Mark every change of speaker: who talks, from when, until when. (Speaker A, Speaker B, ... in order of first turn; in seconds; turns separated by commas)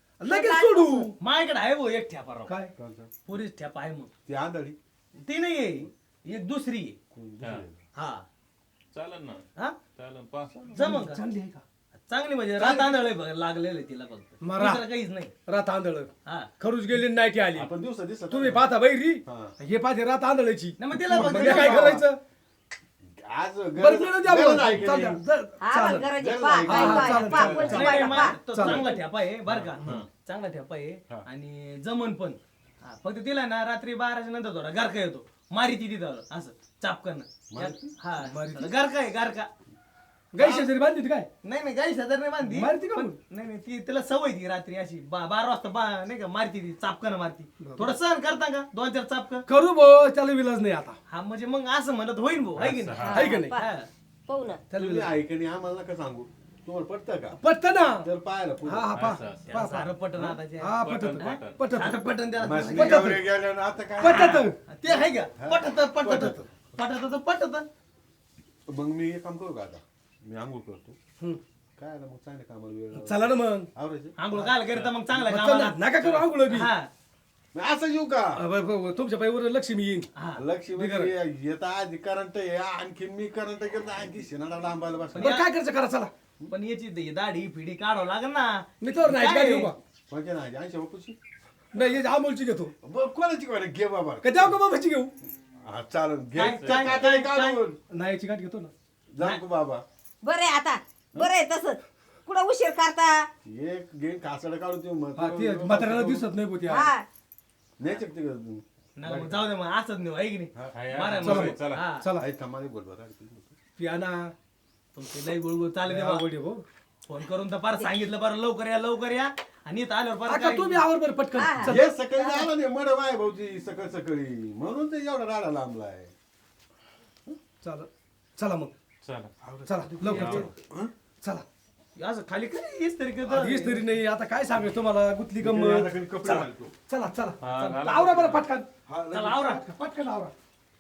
Speaker A: 0.2-1.1, Speaker B: 0.3-1.1, Speaker C: 1.2-2.5, Speaker A: 2.5-2.7, Speaker D: 2.8-3.1, Speaker C: 3.3-4.1, Speaker D: 4.3-4.8, Speaker C: 5.2-7.0, Speaker D: 7.1-7.8, Speaker C: 8.0-8.2, Speaker E: 8.9-9.4, Speaker E: 10.0-10.7, Speaker C: 10.7-11.2, Speaker A: 10.8-11.6, Speaker C: 12.1-15.3, Speaker A: 12.6-13.0, Speaker A: 14.4-14.8, Speaker A: 15.5-17.7, Speaker D: 17.6-18.7, Speaker A: 18.3-22.2, Speaker D: 19.3-19.6, Speaker C: 20.8-22.0, Speaker D: 20.9-22.1, Speaker D: 23.1-25.2, Speaker A: 23.8-26.1, Speaker B: 25.6-28.4, Speaker D: 26.2-28.1, Speaker A: 26.6-29.0, Speaker E: 27.3-27.8, Speaker C: 27.7-39.5, Speaker E: 28.6-28.9, Speaker D: 29.5-30.1, Speaker D: 37.5-38.0, Speaker A: 38.2-38.7, Speaker A: 40.3-41.3, Speaker C: 40.4-40.7, Speaker C: 41.4-49.4, Speaker A: 42.5-43.2, Speaker A: 47.6-48.0, Speaker A: 49.5-51.0, Speaker C: 51.1-53.9, Speaker E: 52.6-53.2, Speaker B: 53.0-53.7, Speaker A: 53.1-53.6, Speaker B: 54.3-54.6, Speaker A: 54.7-55.1, Speaker D: 54.8-58.9, Speaker A: 57.4-58.1, Speaker A: 58.7-59.9, Speaker E: 59.0-59.6, Speaker C: 59.5-63.2, Speaker A: 60.6-62.0, Speaker E: 60.8-61.6, Speaker D: 62.4-64.4, Speaker A: 62.7-63.2, Speaker C: 64.0-67.7, Speaker A: 64.0-64.6, Speaker D: 64.9-66.5, Speaker D: 68.7-71.0, Speaker D: 71.8-74.2, Speaker A: 73.0-73.7, Speaker C: 74.2-76.9, Speaker A: 75.1-76.7, Speaker D: 77.5-78.4, Speaker A: 78.4-80.1, Speaker C: 80.2-80.4, Speaker D: 80.4-85.3, Speaker A: 80.8-81.1, Speaker C: 85.2-85.5, Speaker A: 85.2-86.1, Speaker C: 86.5-89.7, Speaker A: 88.8-89.8, Speaker D: 90.1-91.2, Speaker A: 91.7-92.7, Speaker D: 92.8-94.6, Speaker A: 94.2-95.1, Speaker D: 95.6-97.8, Speaker C: 96.4-97.6, Speaker E: 96.5-97.0, Speaker A: 97.9-98.7, Speaker D: 99.1-99.8, Speaker B: 100.2-103.3, Speaker D: 103.4-106.3, Speaker A: 105.2-106.9, Speaker B: 106.7-107.1, Speaker D: 107.8-109.5, Speaker C: 109.0-112.0, Speaker E: 110.7-111.8, Speaker A: 111.2-112.3, Speaker D: 112.2-113.5, Speaker A: 113.8-114.3, Speaker C: 115.0-116.3, Speaker A: 115.8-116.6, Speaker C: 117.1-120.8, Speaker A: 120.3-121.9, Speaker B: 121.4-121.7, Speaker D: 121.6-126.1, Speaker A: 127.6-128.7, Speaker E: 129.0-129.3, Speaker D: 129.4-130.9, Speaker A: 129.7-130.5, Speaker E: 130.1-130.5, Speaker C: 132.0-133.8, Speaker A: 133.3-138.7, Speaker D: 135.4-136.7, Speaker E: 137.4-138.4, Speaker D: 138.9-139.6, Speaker C: 139.1-139.7, Speaker A: 139.5-140.3